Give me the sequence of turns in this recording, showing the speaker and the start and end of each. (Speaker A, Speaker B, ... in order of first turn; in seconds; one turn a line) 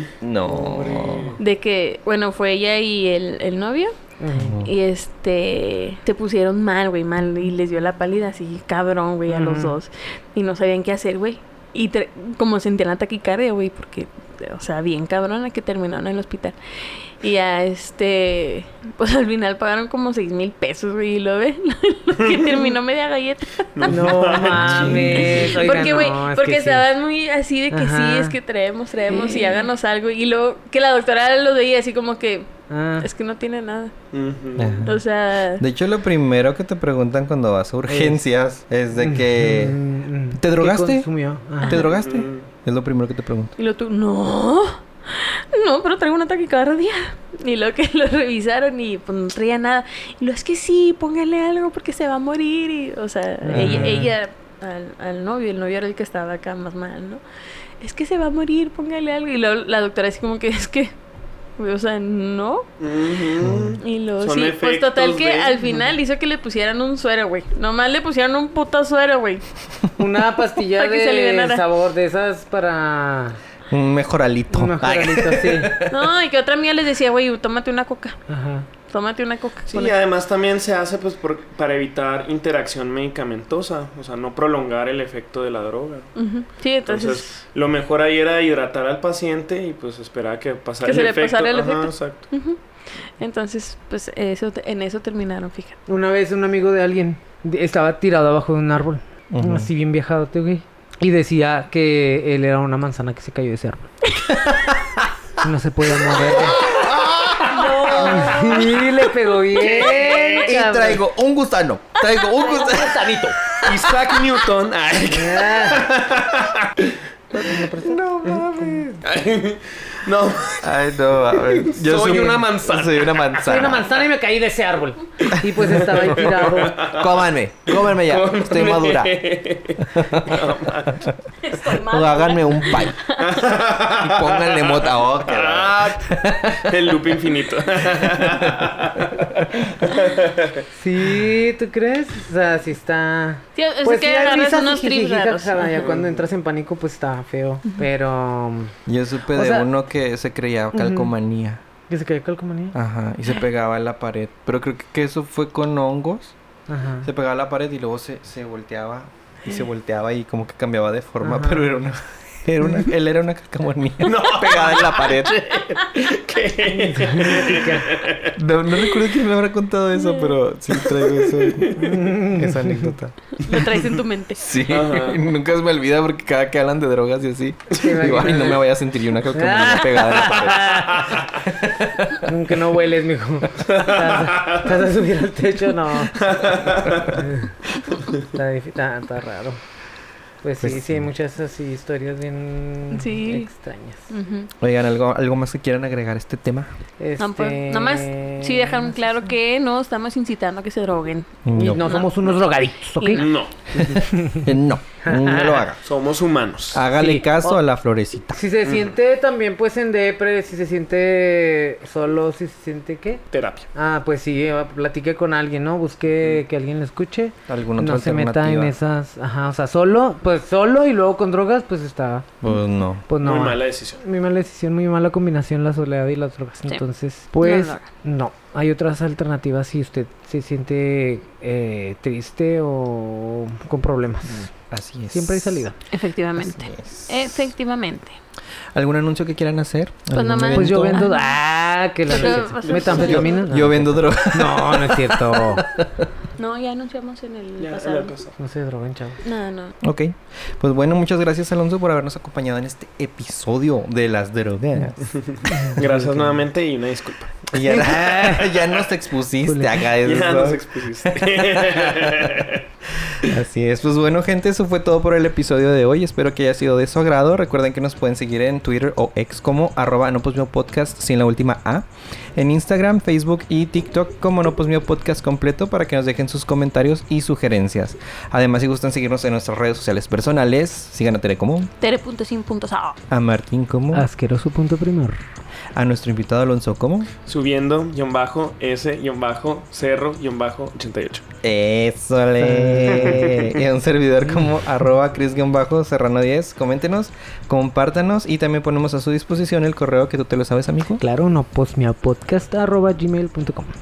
Speaker A: 0.2-1.4
Speaker B: 0.5-1.4
Speaker C: 1.4-3.9
Speaker D: 4.2-4.6
Speaker A: 4.4-4.7
Speaker C: 4.6-24.0
Speaker D: 9.3-9.8
Speaker B: 22.2-22.7
Speaker B: 23.7-25.9
Speaker D: 23.9-26.8
Speaker A: 24.4-25.8
Speaker C: 25.3-33.9
Speaker D: 27.7-28.4
Speaker D: 32.7-33.1
Speaker B: 34.1-34.9
Speaker A: 34.6-35.0
Speaker C: 34.8-35.6
Speaker A: 35.6-39.8
Speaker D: 37.9-38.2
Speaker D: 39.0-41.8
Speaker A: 40.3-41.1
Speaker C: 41.6-42.0
Speaker A: 41.6-43.5
Speaker B: 41.8-42.5
Speaker C: 43.6-57.2
Speaker A: 53.5-54.1
Speaker D: 53.5-54.0
Speaker C: 57.8-60.9
Speaker C: 61.6-63.1
Speaker B: 62.8-65.8
Speaker A: 63.4-63.8
Speaker C: 63.8-69.5
Speaker D: 70.0-73.4
Speaker C: 70.6-71.6
Speaker A: 73.7-76.0
Speaker D: 74.5-75.8
Speaker C: 75.9-78.2
Speaker D: 78.3-78.7
Speaker C: 78.9-80.0
Speaker B: 79.7-86.1
Speaker C: 86.2-87.3
Speaker B: 86.9-92.3
Speaker C: 90.8-92.6
Speaker C: 93.2-95.8
Speaker D: 95.9-103.9
Speaker A: 99.3-99.7
Speaker A: 104.4-105.1
Speaker D: 105.4-106.7
Speaker C: 107.5-108.8
Speaker D: 108.0-111.0
Speaker B: 109.5-110.5
Speaker A: 109.8-113.3
Speaker C: 112.1-112.7
Speaker D: 112.6-113.4
Speaker B: 113.6-117.0
Speaker D: 115.1-116.0
Speaker D: 117.3-118.0
Speaker A: 117.8-119.0
Speaker D: 118.6-118.9
Speaker B: 119.0-123.7
Speaker A: 120.6-123.9
Speaker D: 123.4-126.8
Speaker B: 125.7-131.1
Speaker A: 126.8-129.2
Speaker A: 129.9-130.5
Speaker C: 131.4-133.6
Speaker A: 131.7-133.0
Speaker B: 133.2-140.7
Speaker A: 133.9-136.9
Speaker A: 138.1-138.7
Speaker D: 140.8-148.8
Speaker C: 143.6-145.8
Speaker B: 145.8-146.2
Speaker A: 148.9-151.6
Speaker D: 149.3-149.7
Speaker D: 150.7-151.1
Speaker D: 151.9-152.8
Speaker A: 152.7-156.3
Speaker D: 156.7-157.1
Speaker A: 157.0-165.6
Speaker D: 161.2-161.7
Speaker B: 164.0-168.3
Speaker D: 166.7-167.9
Speaker A: 168.3-173.8
Speaker C: 170.0-170.3
Speaker B: 170.8-172.0
Speaker D: 171.8-172.9
Speaker C: 173.4-174.5
Speaker A: 174.4-182.3
Speaker B: 174.6-175.2
Speaker D: 177.7-178.6
Speaker B: 177.9-178.6
Speaker D: 179.3-181.1
Speaker D: 182.2-186.5
Speaker B: 183.7-184.7
Speaker B: 186.1-187.2
Speaker D: 187.0-187.6
Speaker D: 188.2-189.6
Speaker D: 190.4-194.1
Speaker A: 190.6-191.1
Speaker C: 192.9-193.5
Speaker C: 194.1-194.5
Speaker A: 194.6-196.7
Speaker D: 197.0-198.9
Speaker C: 197.2-202.3
Speaker A: 201.4-202.0
Speaker D: 201.5-205.6
Speaker C: 203.0-203.3
Speaker B: 203.1-204.1
Speaker A: 204.4-205.8
Speaker B: 205.8-206.9
Speaker A: 206.7-208.4
Speaker D: 206.9-207.6
Speaker D: 208.3-222.4
Speaker B: 208.6-208.9
Speaker B: 213.3-213.7
Speaker A: 217.5-218.7
Speaker A: 222.4-223.1
Speaker D: 223.1-234.5
Speaker B: 223.2-224.0
Speaker C: 227.4-227.8
Speaker A: 234.7-235.6
Speaker D: 235.1-235.8
Speaker C: 235.9-238.2
Speaker A: 236.4-237.5
Speaker A: 238.7-241.1
Speaker C: 240.1-241.4
Speaker D: 240.5-245.7
Speaker C: 242.1-243.5
Speaker B: 242.2-243.2
Speaker A: 242.9-246.1
Speaker C: 246.4-248.2
Speaker B: 247.6-248.3
Speaker D: 248.4-249.2
Speaker C: 249.2-249.7
Speaker A: 249.8-256.4
Speaker B: 255.0-257.4
Speaker D: 255.5-255.8
Speaker D: 257.5-258.6
Speaker A: 257.5-262.4
Speaker D: 259.4-259.8
Speaker B: 260.0-262.6
Speaker A: 263.2-281.7
Speaker C: 281.8-283.0
Speaker A: 283.1-284.1
Speaker D: 283.9-285.2
Speaker A: 285.7-287.1
Speaker B: 287.3-291.3
Speaker A: 291.4-301.0
Speaker D: 292.4-293.3
Speaker B: 292.9-293.6
Speaker D: 301.0-303.7